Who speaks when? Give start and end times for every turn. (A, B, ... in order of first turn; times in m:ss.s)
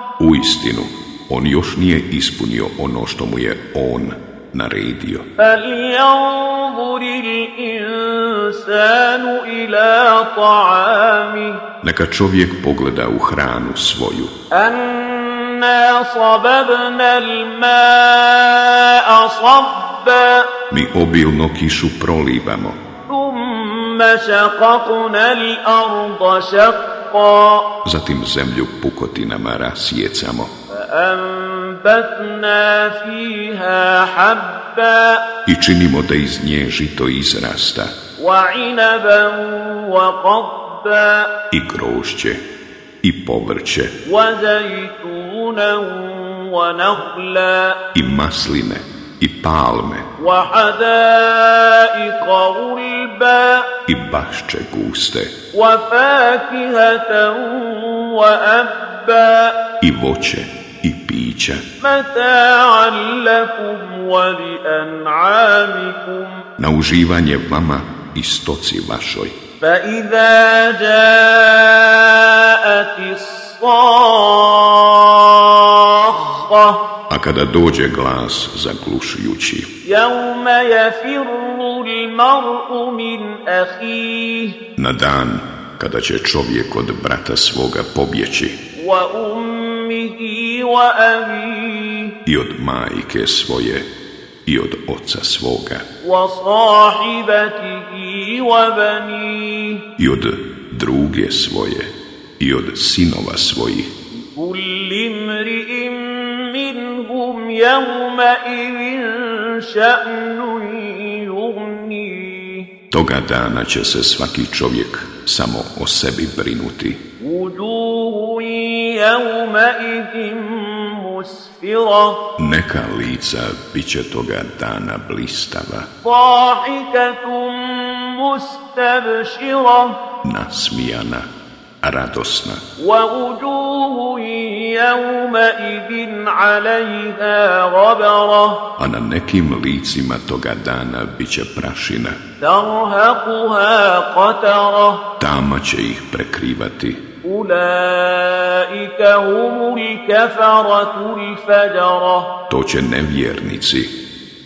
0:00.2-0:05.3 A
0:05.4-0:11.6 B
0:11.8-0:14.3 A
0:14.5-0:20.4 B
0:20.7-0:22.8 A
0:23.1-0:27.6 B
0:27.8-0:30.5 A
0:30.7-0:35.2 B
0:35.5-0:37.9 A
0:38.2-0:41.3 B
0:41.5-0:42.4 A
0:43.0-0:43.9 A
0:44.0-0:47.8 B
0:47.9-0:50.1 A
0:50.2-0:53.6 B
0:53.9-0:55.3 A
0:55.5-0:59.5 B
0:59.8-1:01.6 A
1:01.8-1:06.4 B
1:06.6-1:09.4 A
1:09.6-1:16.8 B
1:17.1-1:19.7 A
1:19.8-1:24.6 B
1:24.8-1:28.6 A
1:28.8-1:32.1 B
1:32.3-1:33.9 A
1:34.5-1:35.8 A
1:36.0-1:39.8 B
1:40.0-1:43.9 A
1:44.2-1:52.7 B
1:52.9-1:57.0 A
1:57.2-2:02.2 B
2:02.4-2:05.9 A
2:06.0-2:10.0 B
2:10.2-2:11.3 A
2:11.8-2:12.6 A
2:12.8-2:18.6 B
2:18.8-2:22.2 A
2:22.4-2:25.0 B
2:25.2-2:27.0 A
2:27.2-2:32.3 B
2:32.5-2:33.9 A